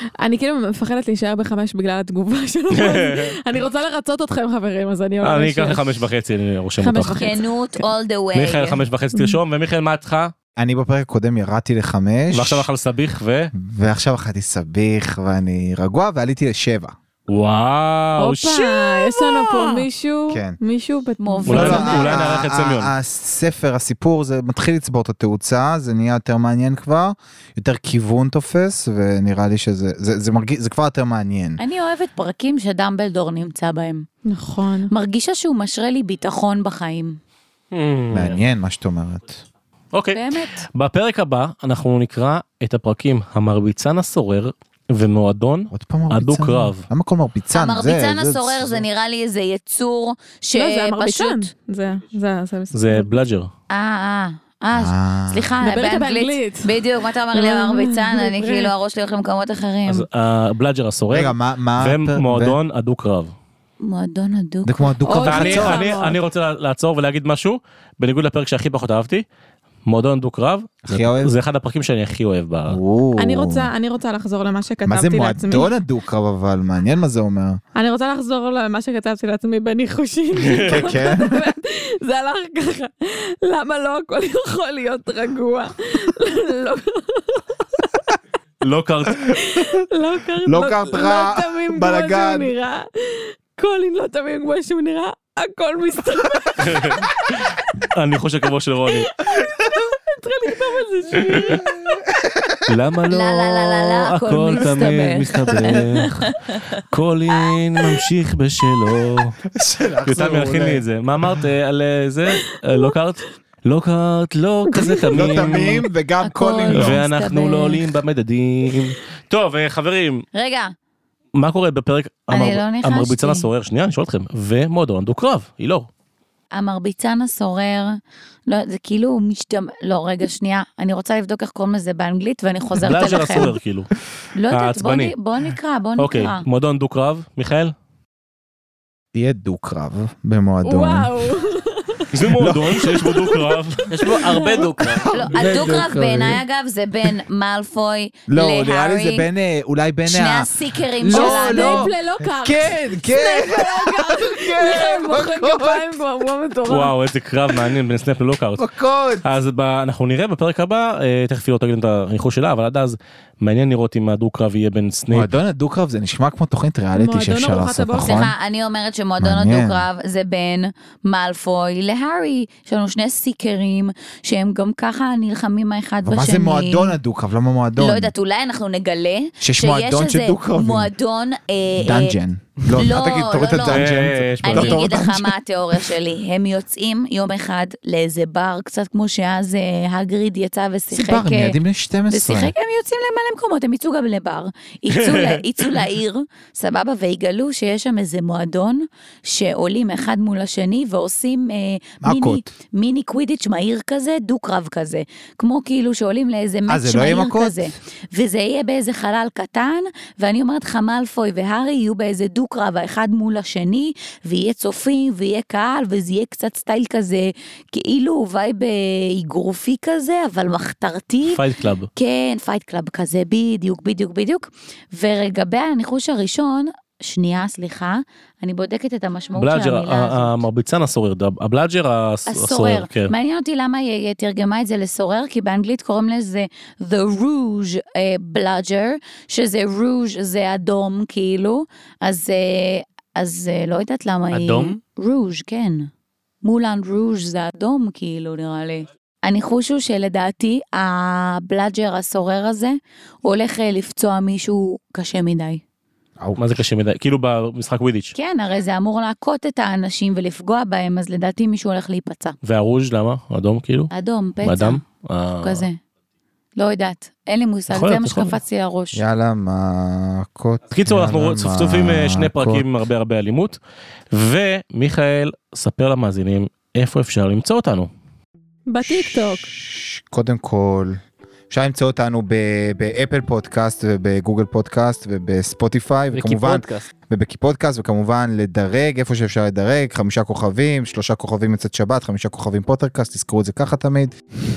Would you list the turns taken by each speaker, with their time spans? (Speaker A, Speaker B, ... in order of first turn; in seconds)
Speaker A: 0.2-5.9, 6.8-7.4, 18.2-22.1, 34.3-34.9, 50.5-53.1, 55.6-58.7, 65.0-66.2, 73.2-75.7, 77.8-87.9, 89.3-97.5, 98.9-102.0, 114.8-115.1, 140.6-142.1, 143.0-143.4, 143.9-144.7, 151.0-156.9, 166.9-168.2, 278.7-279.5
Speaker B: 2.7-3.4, 5.2-7.2, 8.3-10.3, 12.3-13.5, 17.3-18.8, 21.5-22.9, 37.7-38.4, 39.9-46.9, 52.7-53.5, 59.9-63.3, 65.2-69.2, 69.9-72.8, 80.4-80.7, 88.6-89.4, 96.6-99.1, 101.2-101.6, 102.7-109.4, 110.1-115.9, 116.7-120.3, 121.4-125.9, 132.8-133.9, 134.5-135.2, 136.0-137.7, 142.1-143.9, 156.7-158.7, 159.2-165.3, 183.7-185.1, 194.9-195.4, 221.3-221.9, 229.4-233.1, 256.4-258.1, 262.4-263.9, 264.4-265.7, 267.7-268.4, 270.7-273.6, 274.1-277.9
Speaker C: 7.2-8.8, 21.2-22.1, 31.6-34.1, 34.9-37.2, 40.1-40.6, 47.5-51.5, 53.7-60.1, 63.8-65.0, 103.1-106.5, 116.2-117.9, 120.3-120.7, 122.3-123.5, 126.5-133.5, 134.3-136.4, 145.1-149.2, 150.1-151.9, 168.0-176.9, 177.8-182.2, 182.7-183.9, 184.4-191.6, 192.1-221.4, 222.0-230.4, 232.3-245.9, 246.4-255.6, 258.2-262.4, 263.9-264.8, 265.4-265.8, 266.6-269.0
Speaker D: 10.6-12.7, 13.5-16.9, 20.3-20.6, 21.5-31.6, 38.1-39.4, 45.7-48.8, 54.7-55.6, 61.1-62.6, 64.7-65.8, 70.8-71.3, 72.7-73.7, 74.9-77.6, 80.6-81.5, 90.5-92.5, 101.3-102.6, 109.5-110.8, 115.1-117.0, 139.1-141.3, 142.3-142.9, 144.8-146.4, 148.3-156.0, 158.6-159.3, 165.1-168.3, 169.2-169.9, 176.1-178.1, 179.4-180.9, 181.8-185.3, 190.9-192.5, 202.0-202.4, 206.7-207.7, 268.9-272.7, 278.8-281.0, 281.5-294.1
Speaker E: 143.9-145.1, 244.3-244.8, 286.1-286.9